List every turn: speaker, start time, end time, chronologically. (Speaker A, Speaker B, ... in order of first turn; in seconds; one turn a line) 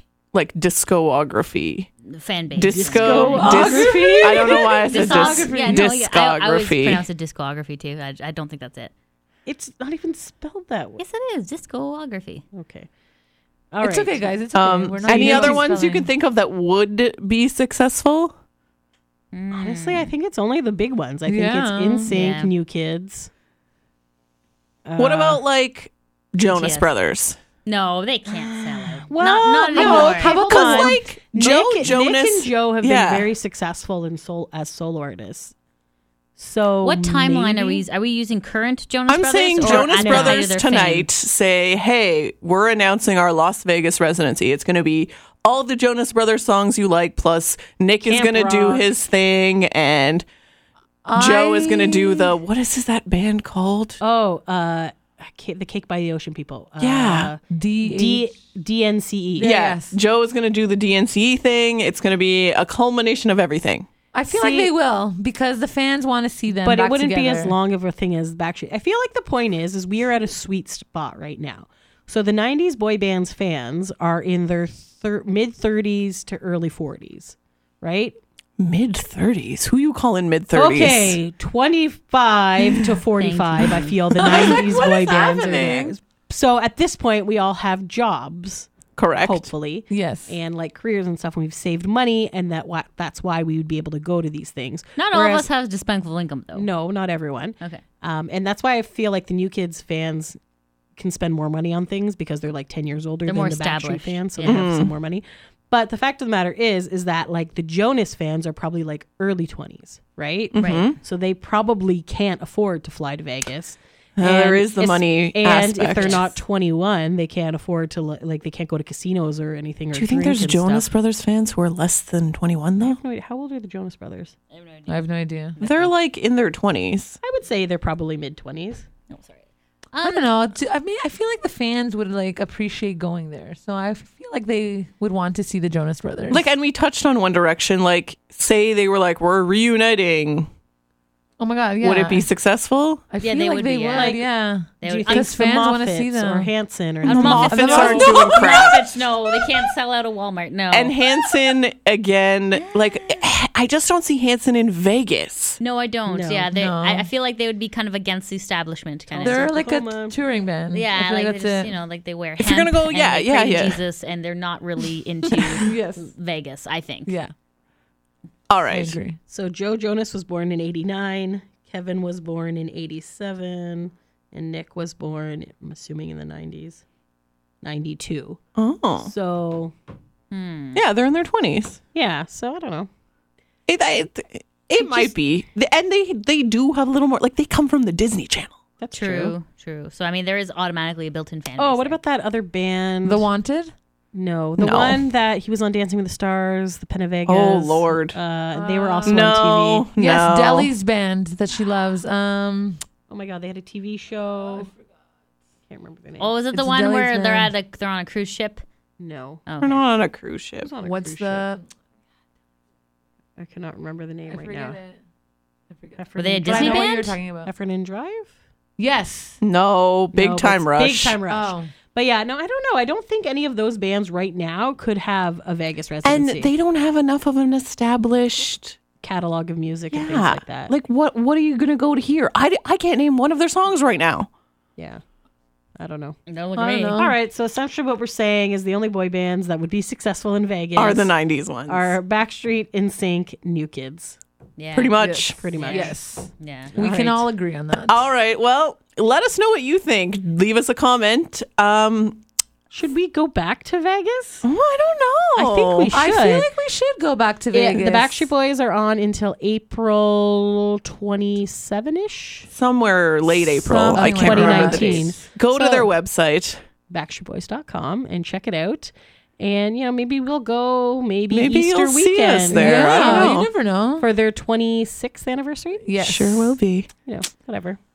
Speaker A: 0.3-1.9
Speaker B: 2.0-3.7
Speaker A: 2.5-7.0
Speaker C: 2.7-4.7
Speaker D: 3.3-5.9
Speaker B: 4.9-8.9
Speaker C: 9.5-11.0
Speaker B: 11.0-12.4
Speaker C: 12.5-12.9
Speaker C: 13.7-14.3
Speaker D: 13.8-16.1
Speaker A: 14.5-18.4
Speaker C: 15.1-15.7
Speaker B: 19.3-20.1
Speaker C: 19.5-23.3
Speaker D: 21.3-22.1
Speaker B: 22.1-22.5
Speaker C: 24.9-25.4
Speaker A: 25.0-27.4
Speaker B: 26.5-26.9
Speaker B: 27.6-30.4
Speaker C: 28.4-35.5
Speaker D: 29.7-31.1
Speaker A: 29.9-33.3
Speaker C: 36.4-37.8
Speaker B: 36.8-41.1
Speaker A: 39.1-50.2
Speaker C: 39.6-40.5
Speaker C: 48.0-48.9
Speaker D: 51.0-52.3
Speaker A: 51.1-54.0
Speaker C: 54.0-59.6
Speaker A: 56.8-57.3
Speaker D: 57.5-58.3
Speaker D: 59.4-60.0
Speaker A: 59.4-63.9
Speaker D: 64.1-67.6
Speaker C: 64.3-64.7
Speaker C: 66.7-78.2
Speaker A: 78.6-81.2
Speaker C: 80.5-95.5
Speaker B: 83.1-84.0
Speaker A: 84.1-86.0
Speaker A: 89.0-89.5
Speaker D: 89.9-90.4
Speaker B: 95.0-96.7
Speaker C: 96.5-100.4
Speaker C: 101.0-120.9
Speaker B: 103.3-104.7
Speaker A: 104.4-104.9
Speaker A: 110.5-111.0
Speaker B: 110.6-110.9
Speaker A: 114.2-116.3
Speaker B: 115.9-116.3
Speaker A: 119.9-123.0
Speaker C: 122.8-124.3
Speaker B: 124.5-125.9
Speaker D: 124.9-125.6
Speaker A: 125.6-127.2
Speaker C: 127.2-128.9
Speaker B: 129.1-129.4
Speaker B: 129.9-130.3
Speaker D: 130.0-136.5
Speaker A: 136.3-140.5
Speaker D: 141.4-142.3
Speaker A: 141.8-143.0
Speaker D: 143.1-146.5
Speaker B: 143.2-144.2
Speaker C: 143.9-144.3
Speaker B: 144.8-145.3
Speaker C: 144.8-148.8
Speaker B: 147.0-151.0
Speaker A: 147.1-148.8
Speaker D: 147.4-148.5
Speaker A: 150.7-155.6
Speaker B: 152.6-153.3
Speaker B: 155.6-159.5
Speaker C: 156.1-156.5
Speaker D: 156.5-157.1
Speaker C: 159.1-160.2
Speaker D: 159.2-161.7
Speaker B: 160.7-167.1
Speaker A: 162.4-163.8
Speaker D: 165.3-166.1
Speaker D: 167.1-167.3
Speaker A: 168.5-169.0
Speaker D: 168.7-169.2
Speaker C: 169.3-176.8
Speaker C: 177.6-178.4
Speaker A: 178.6-179.1
Speaker C: 179.0-179.7
Speaker B: 180.3-180.8
Speaker A: 180.7-181.8
Speaker C: 181.9-182.9
Speaker A: 183.7-188.6
Speaker C: 184.8-185.1
Speaker C: 188.8-189.3
Speaker B: 188.9-192.0
Speaker C: 191.6-193.3
Speaker D: 193.1-193.7
Speaker C: 194.1-199.9
Speaker A: 194.6-195.0
Speaker A: 197.3-198.2
Speaker D: 198.6-199.4
Speaker A: 199.1-200.7
Speaker D: 200.0-202.8
Speaker C: 203.1-204.7
Speaker C: 205.7-206.3
Speaker B: 206.2-208.6
Speaker D: 206.5-207.5
Speaker C: 209.0-209.4
Speaker B: 209.5-209.8
Speaker A: 209.6-210.7
Speaker C: 210.6-211.5
Speaker D: 210.8-211.6
Speaker C: 213.4-214.8
Speaker D: 214.3-215.0
Speaker D: 215.7-217.5
Speaker C: 216.0-218.3
Speaker B: 216.2-217.2
Speaker D: 218.8-219.4
Speaker A: 219.4-221.2
Speaker C: 220.1-226.5
Speaker D: 221.3-221.7
Speaker A: 226.0-228.8
Speaker C: 229.0-230.7
Speaker A: 229.9-234.3
Speaker C: 234.8-235.0
Speaker C: 235.8-236.2
Speaker B: 236.3-237.0
Speaker D: 236.6-237.2
Speaker C: 237.0-241.1
Speaker A: 240.8-242.0
Speaker C: 241.7-244.2
Speaker B: 244.6-244.9
Speaker A: 244.7-245.5
Speaker D: 245.0-248.0
Speaker C: 245.3-246.0
Speaker B: 245.5-246.7
Speaker C: 246.8-247.0
Speaker A: 246.8-252.2
Speaker C: 252.7-254.4
Speaker A: 254.4-255.9
Speaker C: 255.4-256.5
Speaker D: 255.9-258.3
Speaker C: 257.5-262.5
Speaker A: 262.5-266.6
Speaker D: 263.6-265.3
Speaker C: 263.9-265.9
Speaker C: 266.9-273.4
Speaker A: 271.3-273.5
Speaker D: 272.5-274.1
Speaker C: 274.0-275.9
Speaker D: 275.9-276.6
Speaker A: 276.0-276.9
Speaker C: 277.1-277.8